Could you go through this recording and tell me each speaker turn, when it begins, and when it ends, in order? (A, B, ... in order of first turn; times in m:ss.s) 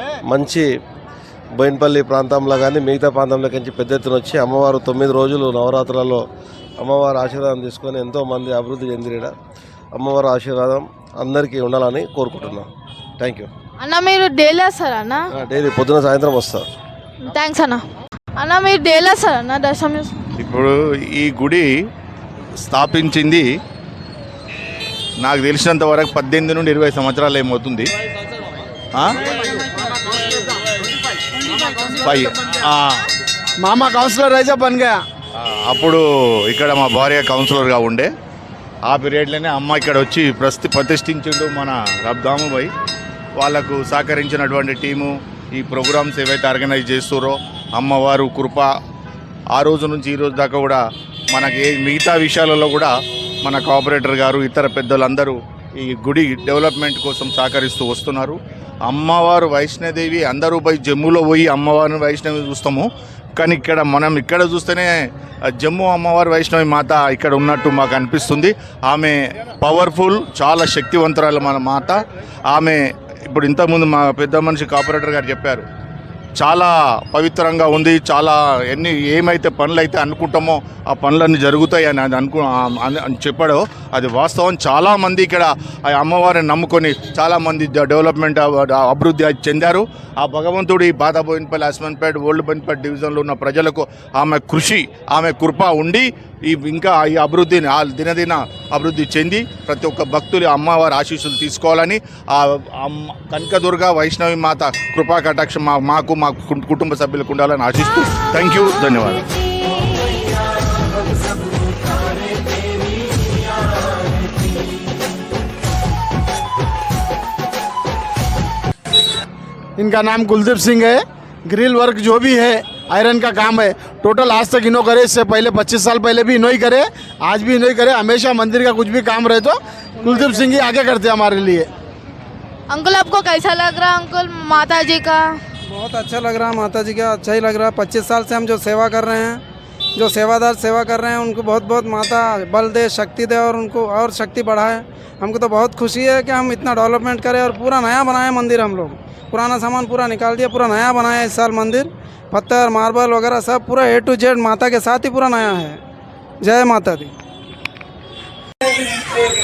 0:00.3-0:00.7 A
0:01.6-0:06.2 A
0:06.8-0:09.3 A
0:10.0-0:12.7 A
0:13.2-0:13.5 A
0:13.8-0:15.2 B
0:15.4-0:16.7 A
0:17.3-0:17.8 B
0:18.4-0:20.1 B
0:20.4-0:21.7 C
0:22.6-0:23.5 C
0:25.2-0:27.9 C
0:32.0-0:33.0 C
0:33.6-0:35.0 D
0:35.4-0:38.1 C
0:38.9-0:42.7 C
0:43.4-0:48.7 C
0:49.6-0:50.8 C
0:51.3-0:52.9 C
0:53.4-1:04.9 C
1:05.6-1:12.0 C
1:12.5-1:15.7 C
1:16.4-1:49.2 C
1:59.8-2:11.7 D
2:10.1-2:10.4 E
2:12.7-2:15.2 B
2:15.7-2:19.4 E
2:20.0-2:35.8 E
2:36.4-2:37.1 E